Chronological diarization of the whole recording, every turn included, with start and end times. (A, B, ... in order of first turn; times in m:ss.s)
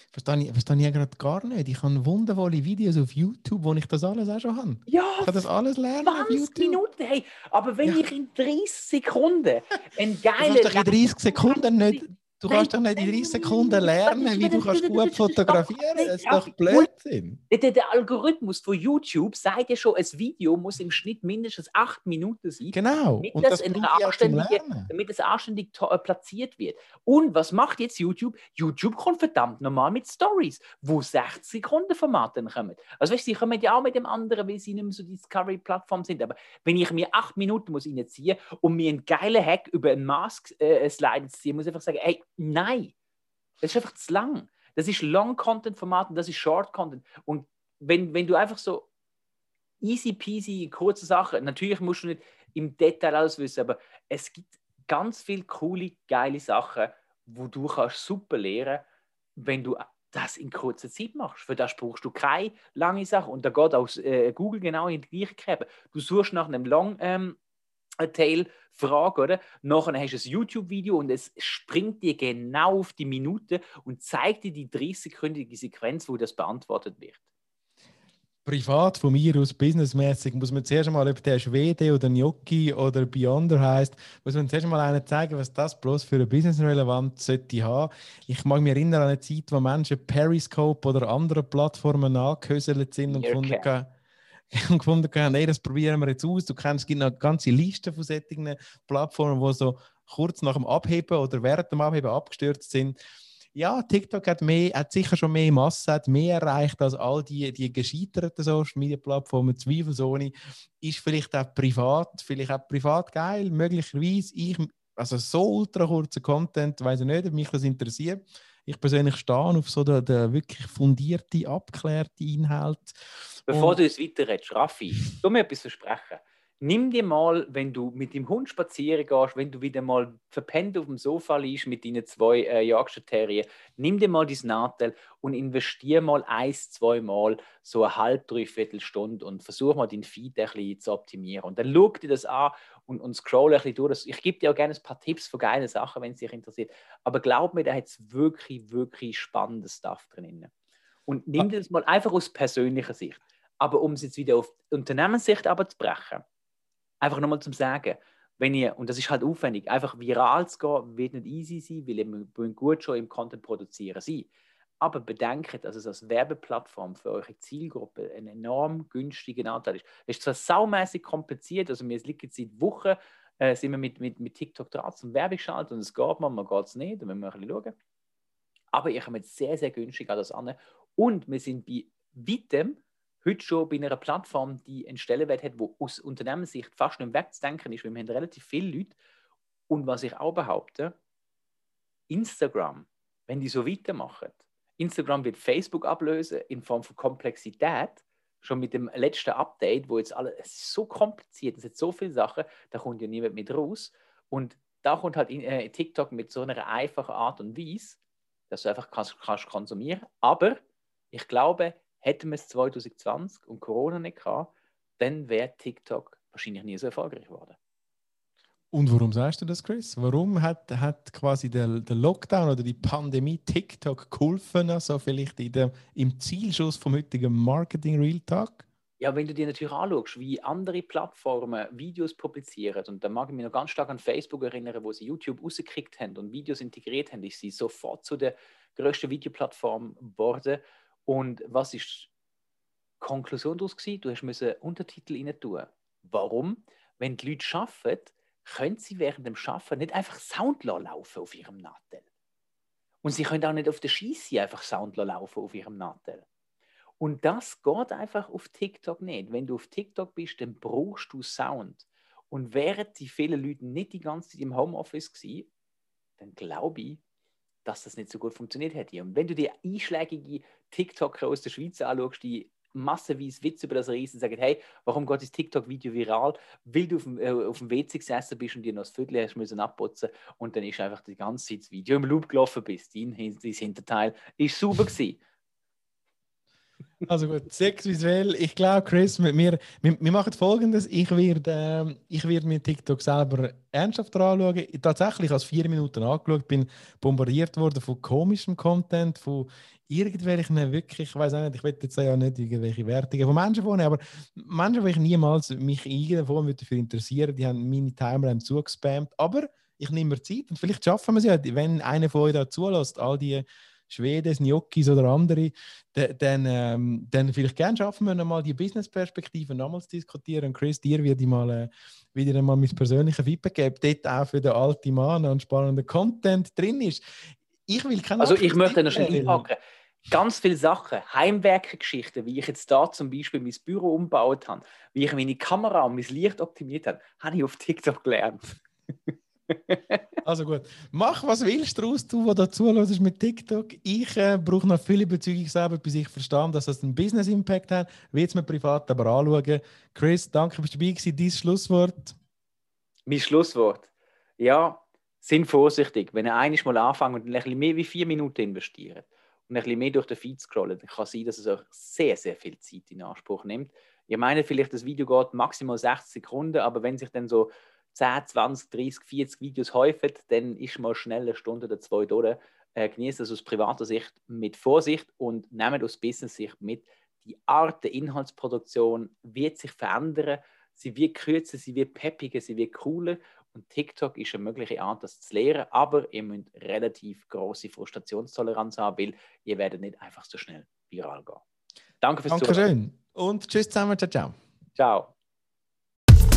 0:00.1-0:06.8 A
0:04.9-0:05.4 B
0:06.0-0:16.9 B
0:10.4-0:17.4 A
0:17.5-0:42.9 B
0:22.7-0:24.9 A
0:43.6-0:48.9 B
0:49.8-0:58.8 B
0:59.4-1:07.4 B
1:08.0-1:17.2 B
1:18.4-1:33.9 A
1:33.1-1:33.7 B
1:34.5-1:43.0 A
1:43.5-2:03.8 A
2:03.5-2:30.5 B
2:31.0-2:36.2 B
2:37.0-2:57.7 B
2:58.7-3:09.0 B
3:09.7-3:11.0 B
3:12.1-3:28.0 B
3:28.5-3:30.6 B
3:31.1-3:37.6 B
3:38.7-3:48.6 A
3:49.0-4:02.1 B
4:03.0-4:12.0 B
4:13.0-4:16.2 B
4:17.0-4:25.5 B
4:26.2-4:27.0 B
4:27.6-4:45.2 B
4:47.0-5:29.5 A
5:28.2-5:38.6 B
5:39.5-5:40.0 B
5:40.2-5:52.2 A
5:53.1-6:31.4 B
6:32.0-6:32.7 B
6:32.3-6:34.4 A
6:34.8-6:35.1 B